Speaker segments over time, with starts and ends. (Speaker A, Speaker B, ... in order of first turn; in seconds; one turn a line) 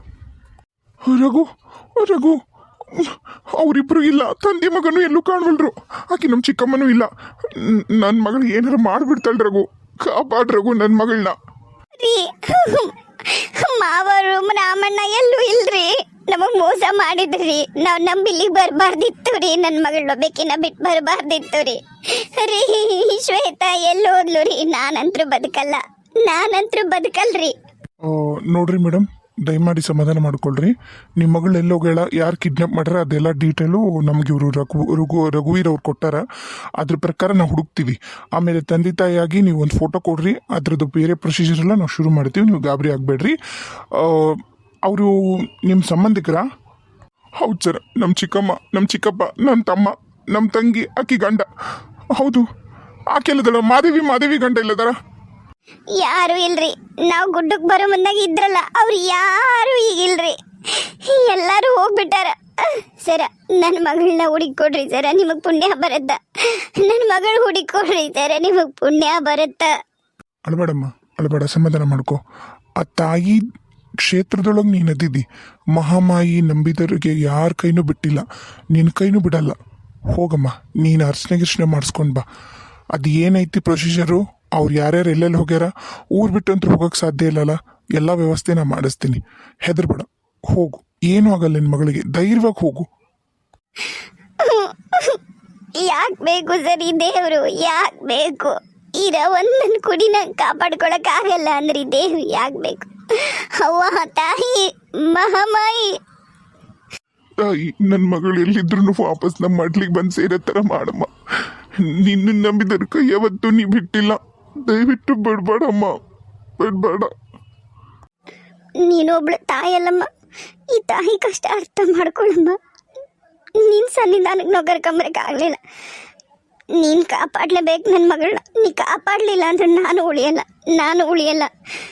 Speaker A: 1.1-2.4
Speaker A: 2.9-11.4
Speaker B: 12.0-27.5
Speaker A: 28.0-36.2
Speaker A: 36.8-43.4
Speaker A: 43.9-45.1
Speaker A: 45.6-46.4
Speaker A: 47.4-51.5
Speaker A: 52.1-52.5
Speaker A: 53.1-54.9
Speaker B: 55.9-69.7
Speaker A: 70.5-72.2
Speaker A: 72.8-73.4
Speaker A: 74.0-79.5
Speaker A: 80.1-82.2
Speaker A: 82.9-92.9
Speaker B: 94.4-95.2
Speaker B: 95.7-106.0
Speaker A: 107.4-116.0
Speaker A: 116.6-117.1
Speaker B: 118.8-120.1
Speaker B: 120.7-122.6
Speaker B: 123.5-125.6
Speaker B: 126.7-131.5